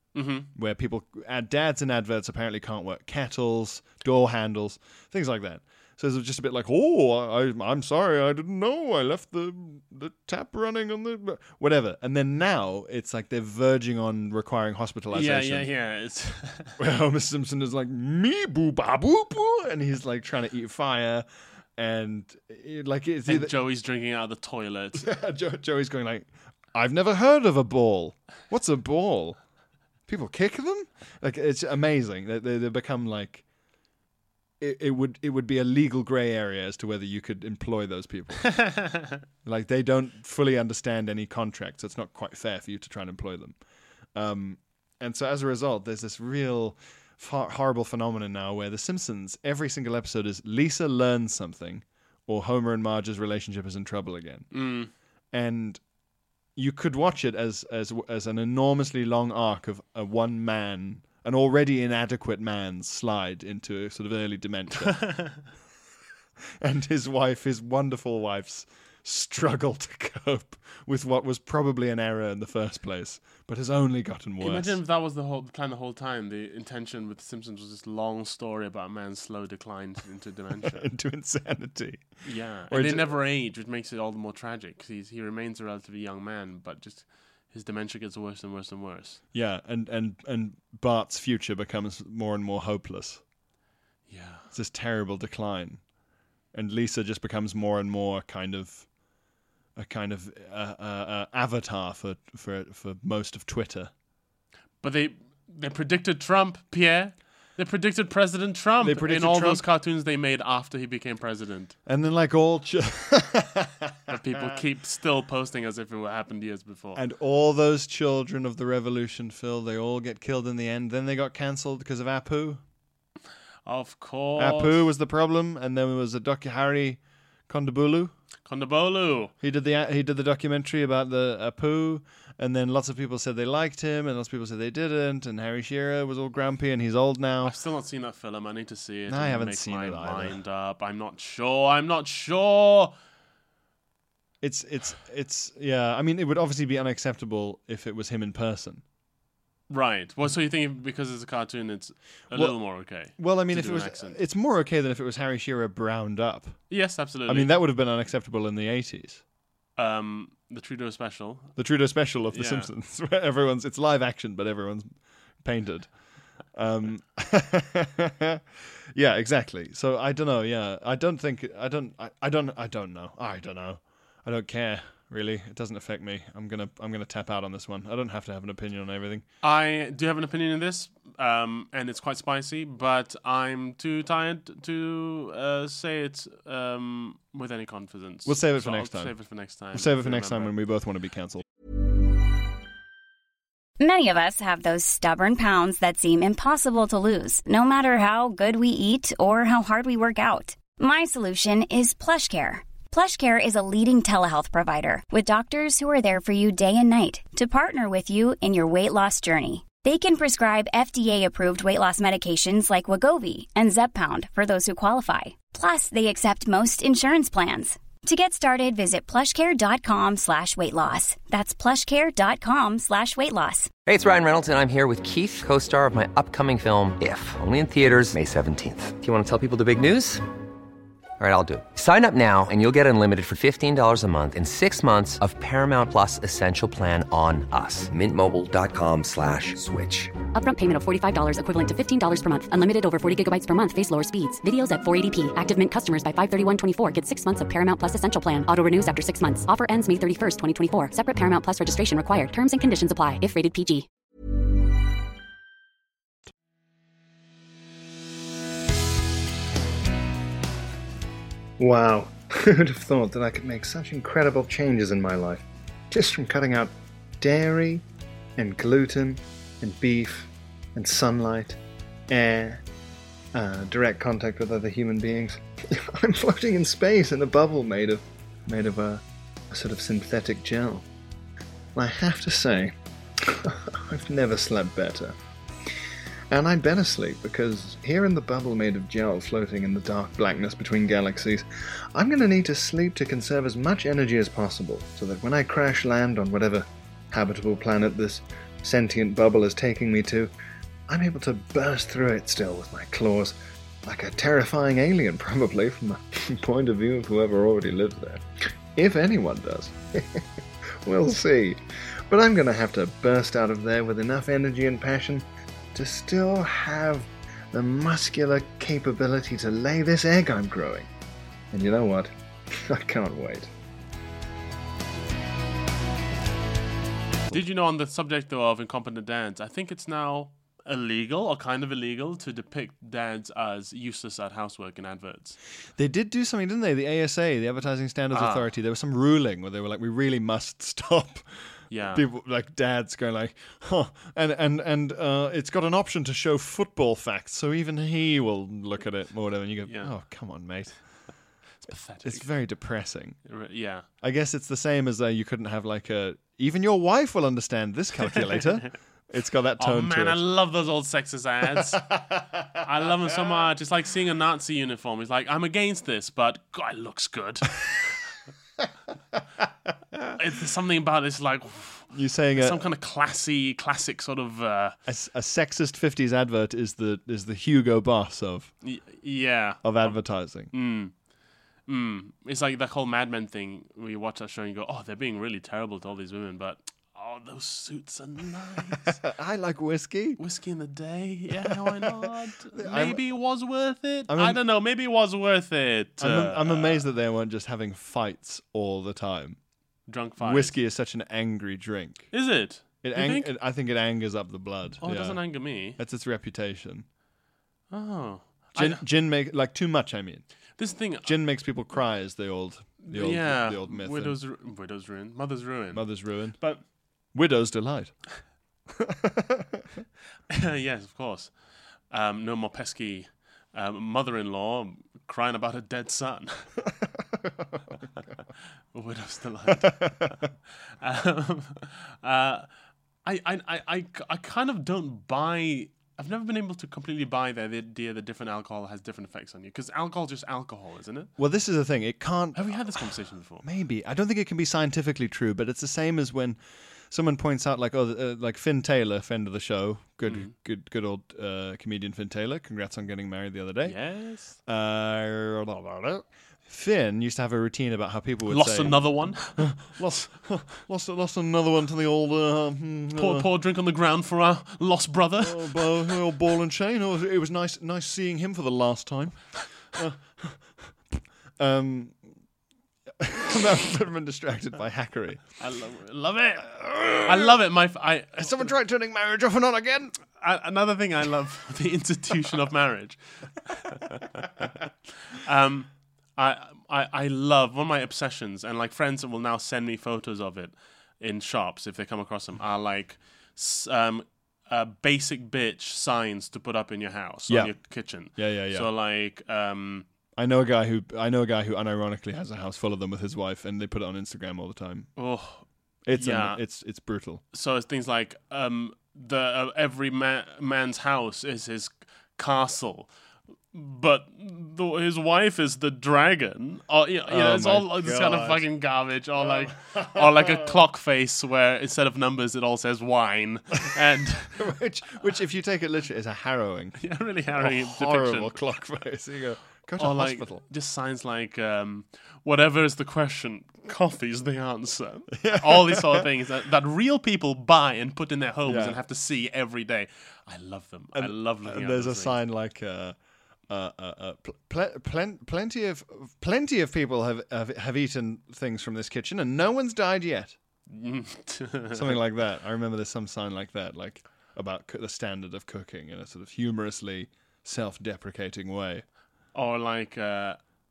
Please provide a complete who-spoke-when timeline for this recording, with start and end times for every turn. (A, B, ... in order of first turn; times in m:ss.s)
0:00.1-0:00.5 A
0:00.5-0:15.7 B
0:15.1-0:16.8 A
0:16.8-0:21.3 B
0:21.8-0:23.6 B
0:23.3-0:25.1 A
0:25.0-0:29.4 B
0:30.1-0:33.4 B
0:34.6-0:38.7 B
0:38.6-0:38.9 A
0:39.4-0:43.6 B
0:44.2-0:54.5 B
0:54.5-0:54.9 A
0:55.3-0:55.8 B
0:56.6-1:05.5 B
1:05.1-1:05.4 A
1:06.6-1:14.8 B
1:14.4-1:20.9 A
1:20.6-1:23.1 B
1:22.2-1:29.2 A
1:29.3-1:33.2 B
1:34.1-1:34.5 A
1:34.5-1:35.8 B
1:36.5-1:38.9 B
1:39.8-1:43.9 B
1:44.8-1:51.8 A
1:48.8-1:49.7 B
1:51.9-1:54.6 B
1:54.1-1:57.0 A
1:57.0-2:02.6 B
2:03.6-2:04.9 A
2:04.4-2:08.1 B
2:08.5-2:09.3 A
2:09.4-2:17.6 B
2:17.4-2:22.9 A
2:19.1-2:20.4 B
2:24.4-2:28.8 B
2:29.7-2:34.2 A
2:32.3-2:36.7 B
2:36.7-2:37.5 A
2:37.3-2:39.2 B
2:39.8-2:41.6 A
2:41.6-2:45.9 B
2:42.3-2:42.7 A
2:46.5-2:59.2 B
2:59.4-3:10.6 A
3:08.3-3:11.4 B
3:13.8-3:43.7 C
3:43.9-3:50.2 D
3:51.2-4:00.1 D
4:00.3-4:13.9 E
4:21.6-4:27.8 F
4:28.4-4:32.6 F
4:33.3-4:40.9 F
4:41.8-4:42.7 F
4:43.2-4:45.2 F
4:46.3-5:00.3 F
5:00.9-5:08.2 F
5:08.8-5:10.2 F
5:10.8-5:20.9 F
5:21.5-5:23.5 F
5:27.3-5:35.4 A
5:35.8-5:51.1 B
5:38.1-5:38.5 A
5:41.7-5:42.0 A
5:49.6-5:50.0 A
5:51.6-5:52.3 A
5:52.0-5:53.3 B
5:53.2-5:53.9 A
5:54.0-6:00.2 B
5:59.6-6:01.9 A
6:02.6-6:07.7 A
6:10.2-6:14.8 A
6:11.9-6:12.6 B
6:14.9-6:18.5 B
6:18.6-6:20.9 A
6:19.6-6:20.5 B
6:21.7-6:29.0 A
6:29.0-6:30.2 B
6:30.2-6:36.9 A
6:31.5-6:33.0 B
6:34.1-6:34.4 B
6:36.0-6:39.4 B
6:39.9-6:40.6 A
6:40.2-6:42.1 B
6:42.1-6:43.3 A
6:42.8-6:46.9 B
6:44.8-6:45.8 A
6:47.7-6:48.8 A
6:48.6-6:50.3 B
6:50.6-6:51.2 A
6:50.9-6:54.2 B
6:52.8-6:56.6 A
6:55.7-6:56.4 B
6:57.1-6:58.1 B
6:58.8-6:59.6 B
7:00.3-7:01.4 A
7:01.9-7:06.5 A
7:08.7-7:10.2 A
7:09.6-7:10.1 B
7:10.8-7:12.5 A
7:13.0-7:21.1 A
7:21.2-7:22.7 B
7:22.4-7:23.4 A
7:23.4-7:43.3 B
7:30.0-7:30.3 A
7:33.6-7:34.4 A
7:38.3-7:40.0 A
7:43.0-7:46.0 A
7:45.2-7:52.0 B
7:53.0-7:55.3 B
7:55.4-7:58.5 A
7:56.4-7:57.3 B
7:58.2-8:00.0 B
8:00.1-8:19.9 A
8:17.3-8:18.7 B
8:20.2-8:24.9 B
8:25.0-8:26.4 A
8:25.8-8:27.2 B
8:27.3-8:32.9 A
8:33.5-8:44.5 A
8:37.1-8:38.5 B
8:39.2-8:40.6 B
8:44.3-8:50.4 B
8:46.8-8:48.4 A
8:49.8-9:02.2 A
8:55.1-8:56.1 B
8:58.4-8:58.8 B
9:00.9-9:03.0 B
9:03.5-9:10.4 B
9:10.7-9:12.0 A
9:11.7-9:18.8 B
9:19.3-9:20.4 A